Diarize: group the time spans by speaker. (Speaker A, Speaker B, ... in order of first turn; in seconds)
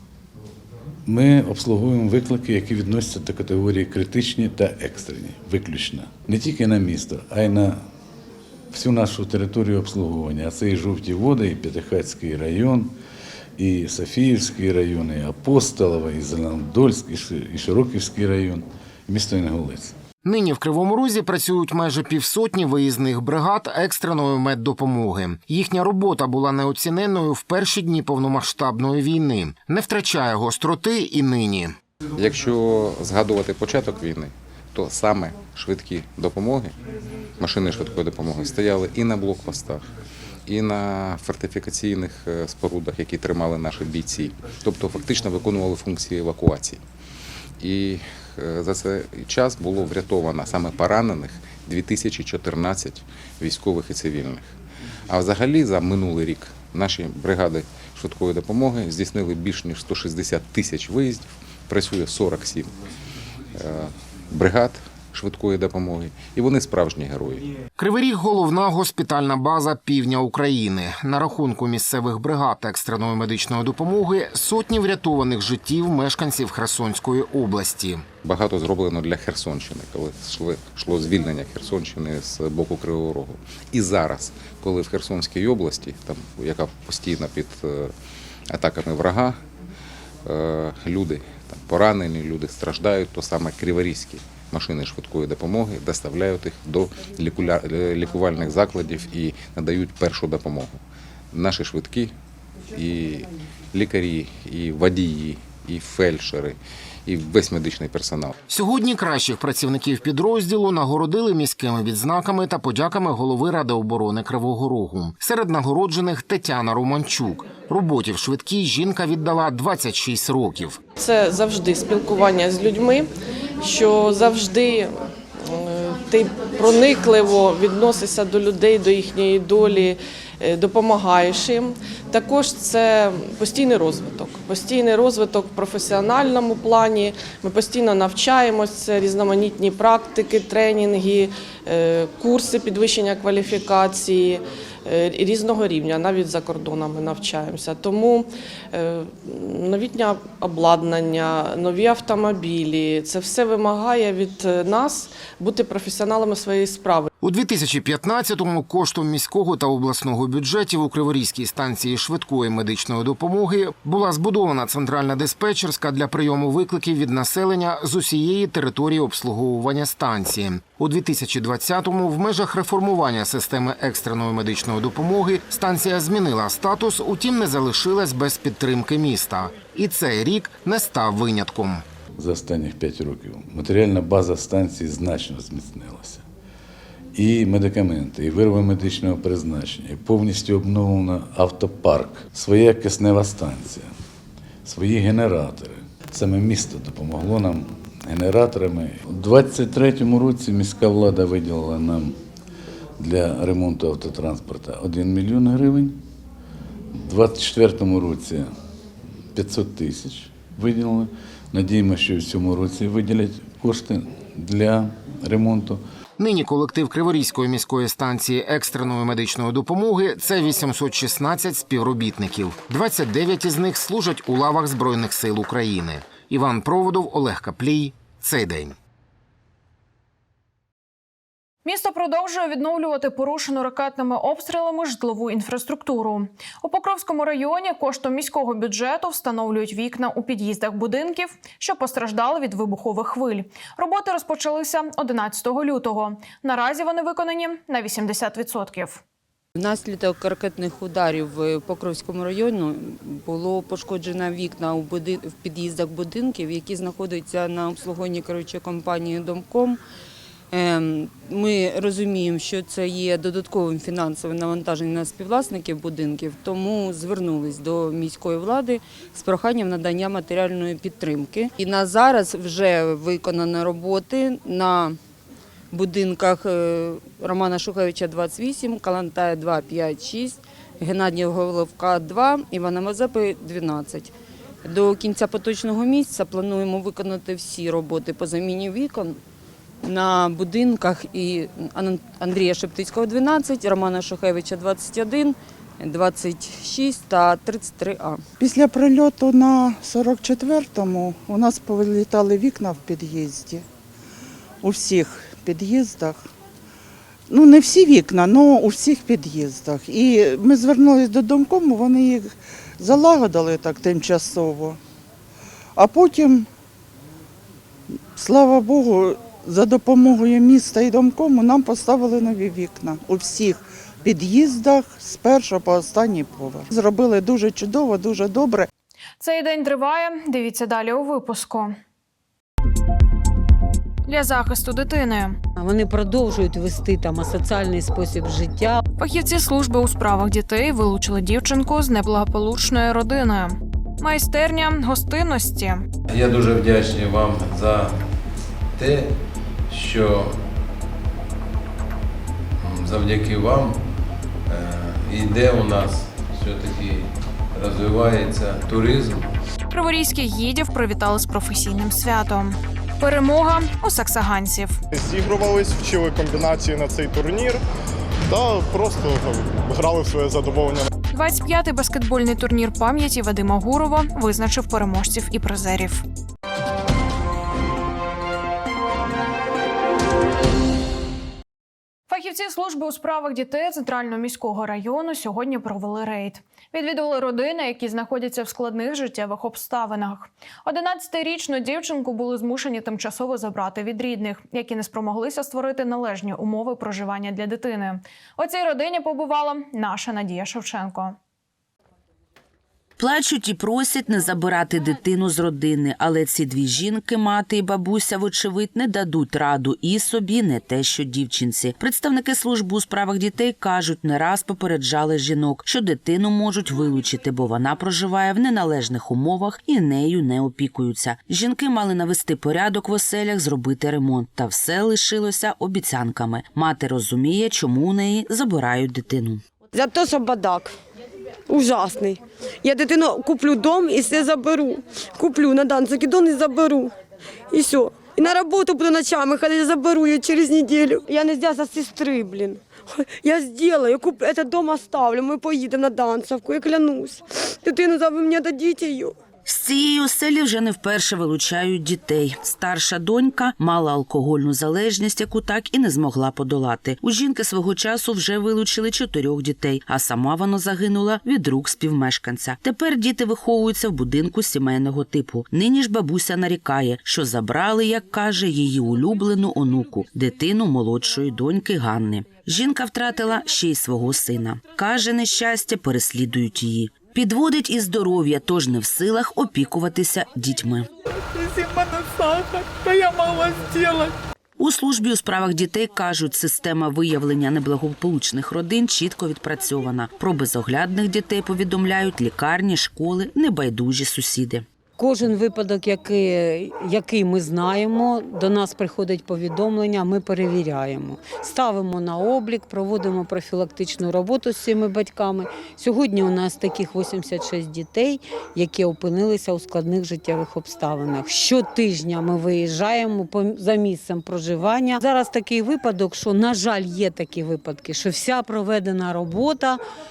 Speaker A: 1.1-7.8, 8.7-12.9, 13.6-19.9, 182.2-186.2, 187.1-193.9, 194.6-202.1, 203.0-206.0, 206.9-208.5, 209.3-215.8
Speaker B: 20.2-31.7, 67.8-78.0, 108.5-120.8, 157.2-181.8, 216.2-228.8
Speaker C: 32.1-36.8, 37.4-39.9, 40.5-46.8, 47.6-54.5, 55.1-62.7, 63.5-67.5, 78.2-87.9, 88.5-89.4, 90.2-100.8, 101.3-102.1, 102.7-108.3
Speaker D: 121.0-123.1, 123.6-157.1
Speaker E: 231.6-249.0, 329.2-331.8, 334.1-335.4, 339.0-345.8, 359.7-364.8, 371.1-376.0, 382.1-401.1
Speaker F: 249.6-259.8, 260.5-275.0, 275.7-284.1, 284.6-289.2, 289.8-298.2
Speaker G: 298.4-303.6, 304.6-306.2, 307.3-314.8, 315.8-316.4, 318.1-328.7
Speaker H: 335.6-338.8, 495.0-519.8
Speaker I: 346.1-348.0, 348.8-349.1, 349.7-350.4, 352.6-353.8, 354.5-359.3
Speaker J: 364.9-367.6, 368.3-370.9
Speaker K: 403.0-429.4, 449.5-480.9, 484.6-494.6
Speaker L: 429.7-430.8, 431.5-436.9, 437.5-449.1